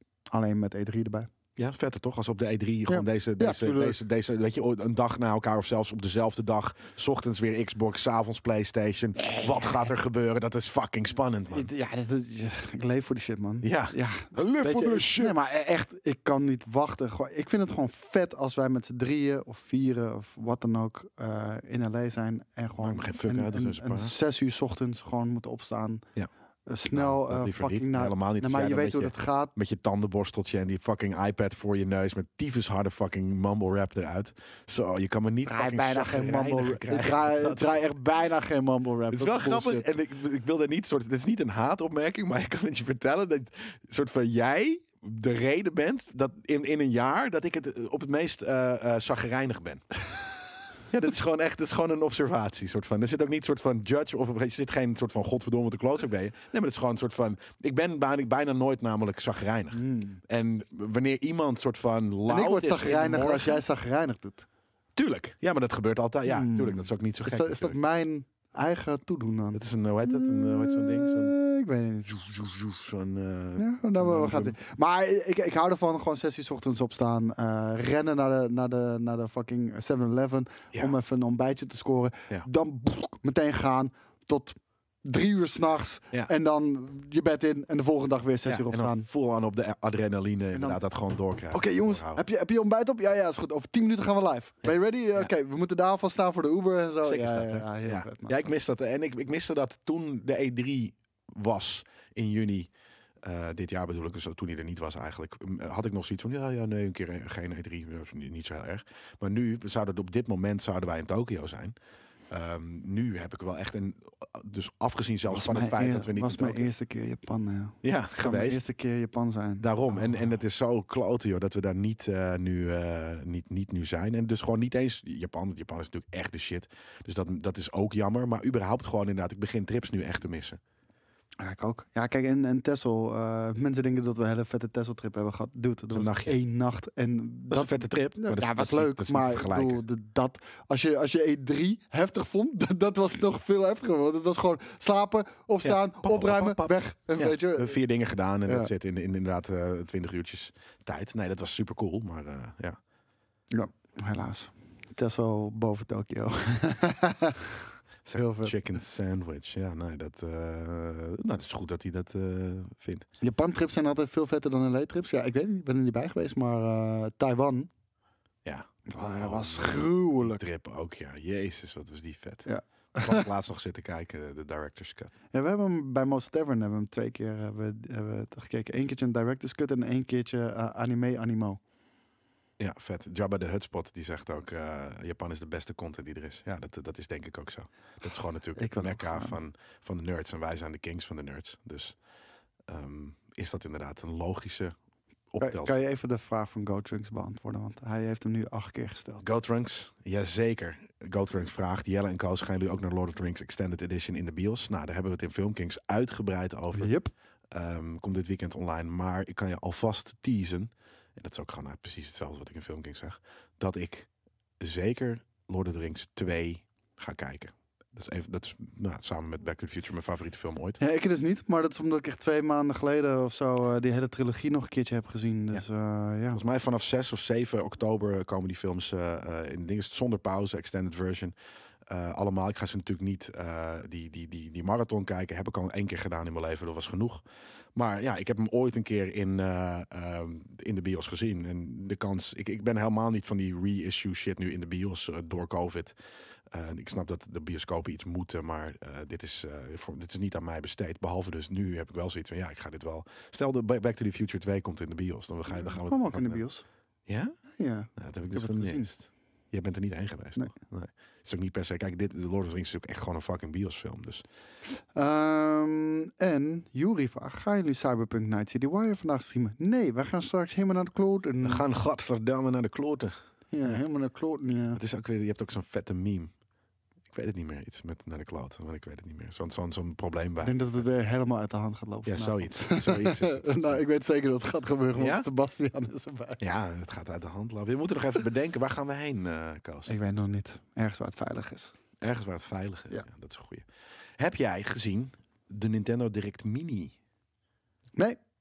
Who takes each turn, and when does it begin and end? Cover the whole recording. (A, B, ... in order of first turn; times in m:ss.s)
0:00.3-0:01.3 A
0:01.6-0:11.7 B
0:02.9-0:04.0 A
0:09.2-0:09.9 A
0:11.5-0:26.0 A
0:13.6-0:15.4 B
0:22.8-0:24.1 B
0:26.7-0:29.5 A
0:26.9-0:37.8 B
0:35.4-0:39.9 A
0:39.1-0:49.9 B
0:50.9-1:03.6 B
0:59.7-1:00.2 A
1:02.3-1:04.4 A
1:05.0-1:07.8 B
1:06.2-1:12.5 A
1:09.5-1:11.3 B
1:12.1-1:14.6 B
1:13.6-1:29.1 A
1:28.4-1:32.2 B
1:30.5-1:30.8 A
1:31.5-1:38.4 A
1:37.0-1:42.7 B
1:43.2-1:51.7 B
1:52.3-1:56.7 B
1:55.3-2:00.3 A
1:57.8-1:58.6 B
1:59.6-2:10.6 B
2:11.4-2:27.8 A
2:15.9-2:16.4 B
2:17.5-2:19.8 B
2:25.6-2:32.8 B
2:28.4-2:28.7 A
2:33.5-2:38.6 A
2:38.1-2:43.1 B
2:43.2-2:47.7 A
2:48.4-2:55.1 B
2:48.9-2:50.4 A
2:52.4-2:53.3 A
2:55.3-3:01.6 A
3:02.6-3:12.0 B
3:08.6-3:09.4 A
3:12.7-3:14.8 B
3:15.3-3:15.7 B
3:15.4-3:19.2 A
3:19.2-3:26.9 B
3:26.7-3:27.1 A
3:27.5-3:40.8 B
3:40.8-3:46.4 A
3:46.3-3:51.3 B
3:51.9-3:57.2 B
3:57.7-4:05.9 B
4:06.5-4:16.4 B
4:15.5-4:16.6 A
4:17.1-4:17.4 B
4:17.5-4:18.9 A
4:17.9-4:24.2 B
4:24.9-4:31.6 A
4:31.4-4:33.8 B
4:33.5-4:34.8 A
4:34.7-4:36.3 B
4:37.1-4:40.6 B
4:40.4-4:46.4 A
4:42.0-4:43.8 B
4:45.0-4:45.3 B
4:46.4-4:49.9 B
4:49.9-4:51.7 A
4:52.0-4:53.6 B
4:54.2-4:57.0 B